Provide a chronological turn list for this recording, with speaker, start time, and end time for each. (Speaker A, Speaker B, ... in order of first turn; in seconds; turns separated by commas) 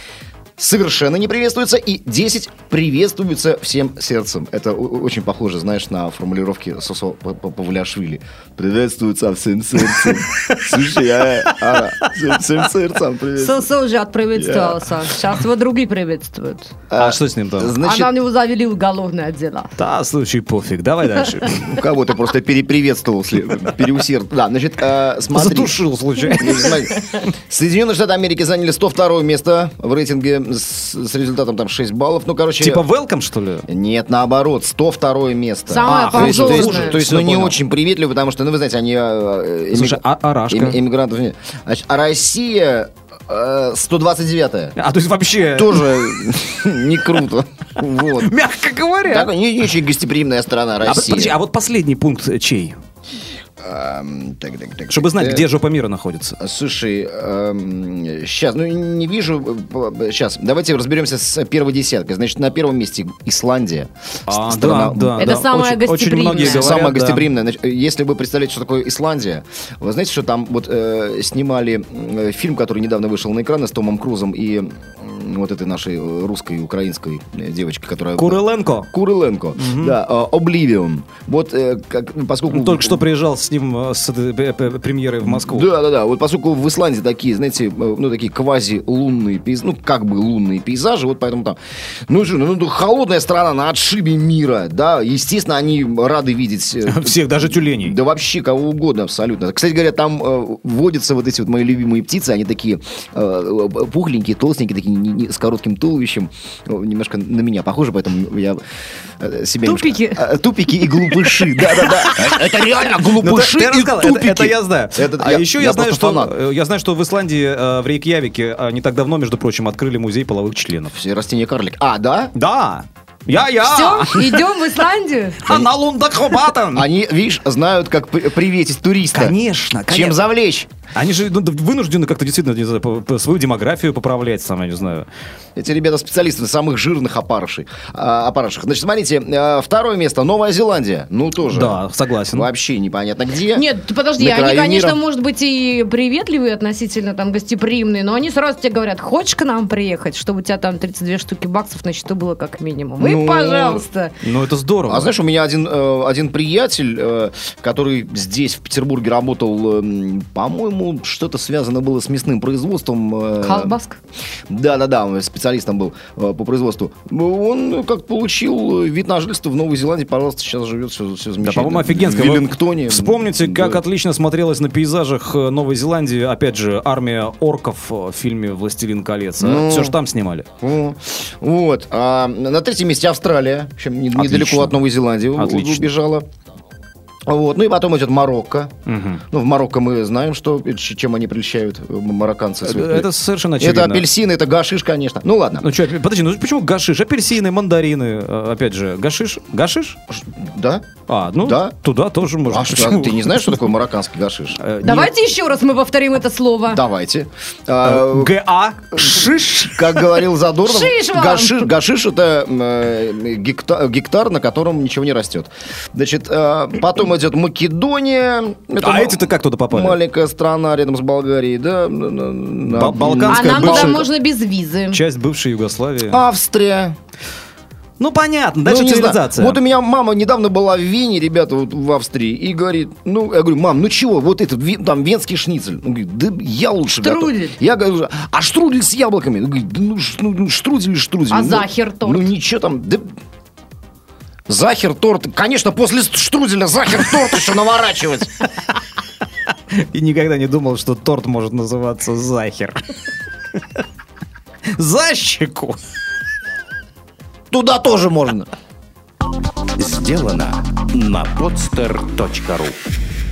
Speaker A: 0.6-13.7, Speaker B: 9.9-10.8, Speaker B: 11.4-12.1, Speaker C: 13.4-16.7, Speaker A: 14.3-14.8, Speaker A: 16.9-18.1, Speaker B: 17.0-17.8, Speaker C: 17.8-19.7, Speaker B: 19.8-21.7, Speaker A: 21.6-32.8, Speaker B: 25.3-26.9, Speaker B: 32.6-33.6, Speaker A: 33.7-44.8, Speaker C: 35.7-37.0, Speaker B: 35.8-37.6, Speaker B: 39.7-40.8, Speaker B: 44.8-46.2, Speaker A: 45.5-48.3, Speaker B: 48.2-49.3, Speaker A: 49.0-51.4, Speaker B: 50.8-52.8, Speaker A: 53.6-55.5, Speaker B: 54.9-56.4, Speaker A: 56.4-65.3, Speaker B: 64.3-67.2, Speaker C: 65.2-66.7, Speaker A: 66.3-83.0, Speaker B: 78.2-78.9, Speaker B: 79.6-80.0, Speaker B: 82.5-85.7, Speaker A: 85.2-108.6, Speaker B: 96.8-98.0, Speaker A: 109.2-116.3, Speaker C: 109.6-110.2, Speaker B: 113.2-120.9, Speaker A: 120.9-122.3, Speaker B: 122.3-124.4, Speaker C: 123.6-125.4, Speaker B: 125.4-126.9, Speaker A: 126.7-129.3, Speaker B: 129.1-130.2, Speaker A: 129.9-130.7, Speaker B: 130.9-135.1, Speaker A: 135.6-141.8, Speaker B: 141.4-142.5, Speaker A: 142.3-143.6, Speaker C: 143.5-154.1, Speaker A: 144.2-145.0, Speaker A: 153.0-153.8, Speaker B: 154.2-155.1, Speaker A: 154.9-163.8, Speaker C: 163.4-164.0, Speaker A: 164.5-173.8, Speaker B: 171.4-180.4, Speaker A: 179.4-180.0, Speaker A: 180.6-186.3, Speaker B: 184.1-184.8, Speaker B: 185.3-185.9, Speaker A: 187.3-188.7, Speaker B: 188.8-189.2, Speaker A: 189.3-195.7, Speaker B: 192.6-194.1, Speaker B: 195.6-200.0, Speaker A: 200.1-200.9, Speaker B: 201.1-203.6, Speaker A: 201.4-201.7, Speaker A: 202.5-204.6, Speaker B: 204.6-205.1, Speaker C: 204.8-206.8, Speaker A: 206.7-208.3, Speaker B: 207.8-210.2, Speaker A: 208.9-224.1, Speaker C: 210.6-211.7, Speaker B: 218.8-220.0, Speaker B: 222.7-224.1, Speaker C: 223.3-225.0, Speaker B: 224.9-226.2, Speaker A: 226.1-226.9, Speaker B: 228.0-229.6, Speaker A: 228.6-243.0, Speaker C: 237.0-237.6, Speaker C: 241.3-242.3, Speaker A: 244.5-248.3, Speaker B: 249.7-252.7, Speaker B: 254.8-255.8, Speaker A: 257.5-258.5, Speaker D: 259.8-262.7